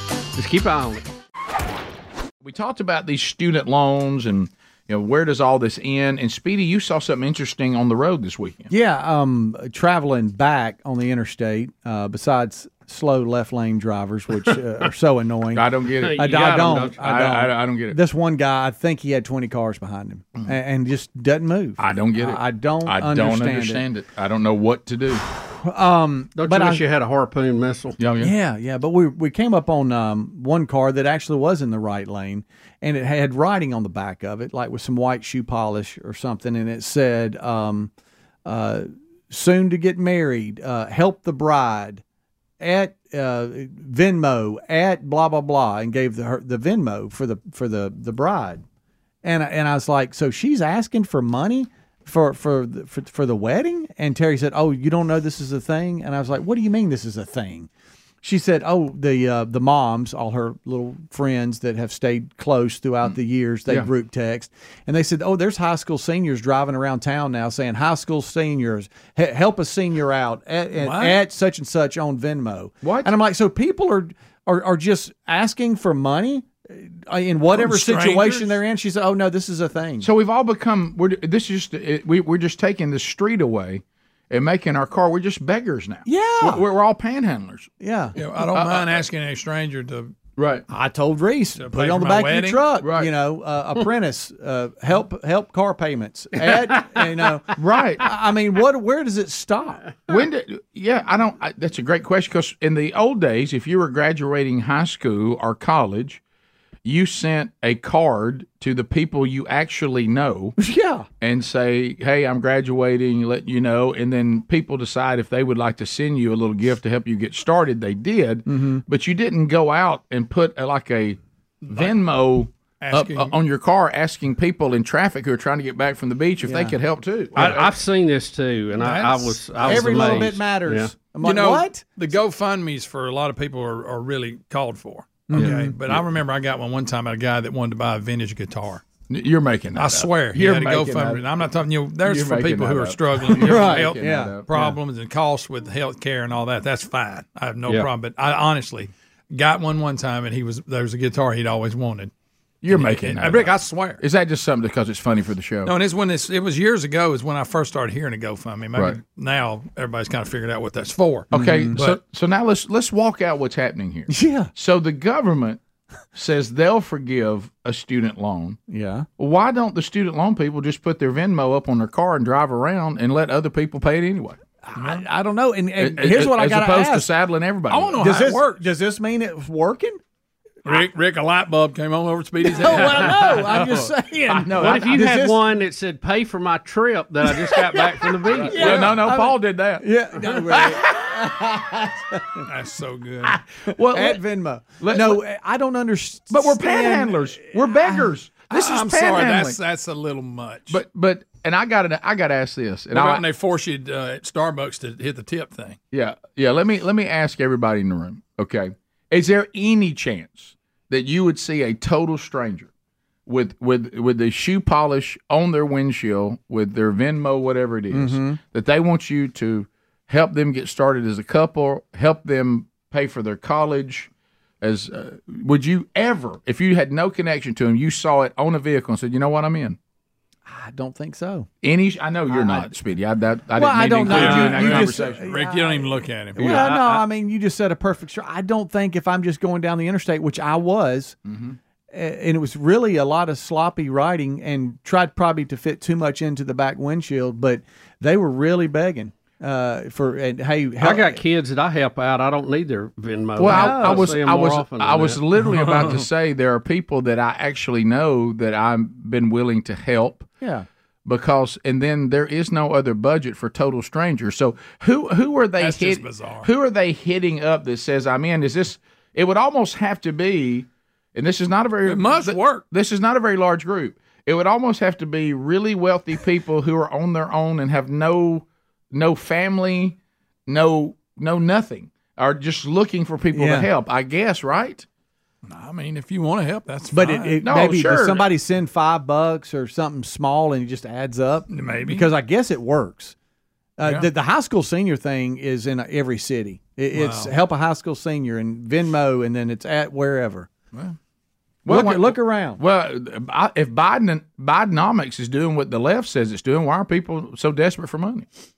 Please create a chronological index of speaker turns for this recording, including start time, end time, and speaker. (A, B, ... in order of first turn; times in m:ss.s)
0:00.3-0:01.0 A
0:02.4-0:08.7 B
0:08.7-0:23.8 C
0:15.5-0:18.0 B
0:16.0-0:17.0 A
0:21.8-0:25.2 B
0:25.4-0:26.8 C
0:26.4-0:28.0 A
0:28.0-0:28.3 B
0:28.2-0:37.9 C
0:38.4-0:42.0 C
0:42.6-0:48.6 C
0:49.2-0:57.7 C
0:58.2-1:20.1 C
1:10.8-1:11.2 D
1:12.8-1:13.1 B
1:17.5-1:18.6 D
1:20.0-1:27.7 B
1:26.0-1:26.6 C
1:27.8-1:28.2 C
1:28.2-1:30.1 D
1:28.4-1:29.0 B
1:30.4-1:30.6 B
1:30.7-1:39.8 C
1:31.6-1:32.7 D
1:32.8-1:33.1 B
1:37.5-1:38.1 B
1:40.1-1:46.2 B
1:46.8-1:50.6 B
1:50.6-1:51.1 C
1:51.2-2:01.2 B
1:58.4-1:58.8 C
2:01.6-2:02.0 D
2:01.7-2:07.7 B
2:02.8-2:03.4 D
2:06.4-2:06.8 C
2:07.3-2:10.9 A
2:08.8-2:10.2 D
2:09.6-2:11.8 C
2:11.2-2:18.8 D
2:15.3-2:15.8 C
2:15.3-2:16.0 B
2:19.1-2:21.2 B
2:19.7-2:32.1 D
2:22.0-2:24.4 B
2:23.4-2:24.7 C
2:32.6-2:35.7 B
2:32.7-2:34.0 D
2:35.6-2:42.0 D
2:41.3-2:45.6 B
2:41.3-2:41.8 C
2:44.1-2:44.5 C
2:46.1-2:48.6 B
2:48.7-2:49.1 C
2:49.2-2:54.4 B
2:54.6-2:57.1 C
2:54.8-2:55.0 D
2:55.8-2:58.0 B
2:57.7-2:58.6 D
2:57.9-3:00.0 C
3:00.6-3:03.7 D
3:02.4-3:05.4 C
3:02.8-3:05.0 B
3:04.6-3:08.9 A
3:08.3-3:12.4 C
3:08.3-3:11.1 B
3:12.4-3:13.4 D
3:13.2-3:14.2 B
3:13.7-3:18.1 C
3:14.8-3:15.2 B
3:16.3-3:19.6 B
3:18.5-3:20.8 D
3:20.7-3:23.2 B
3:22.9-3:25.8 D
3:25.9-3:32.7 B
3:33.2-3:44.1 B
3:37.9-3:38.4 C
3:44.6-3:49.8 B
3:50.4-3:51.5 C
3:51.6-3:55.4 B
3:52.3-3:52.7 C
3:53.5-4:01.2 C
3:54.0-3:56.8 D
3:56.4-3:56.7 B
3:56.4-3:57.0 A
4:01.2-4:01.6 B
4:01.9-4:11.2 C
4:10.8-4:15.2 A
4:13.4-4:20.3 B
4:13.4-4:14.1 C
4:15.5-4:16.0 D
4:20.4-4:20.6 C
4:21.0-4:44.8 B
4:25.6-4:26.5 D
4:31.8-4:32.6 D
4:43.3-4:43.7 C
4:45.4-4:47.4 D
4:46.9-4:53.1 C
4:47.4-4:48.2 B
4:51.5-4:52.0 D
4:53.8-5:00.5 C
4:56.9-4:57.3 D
5:01.6-5:02.6 C
5:01.6-5:08.2 B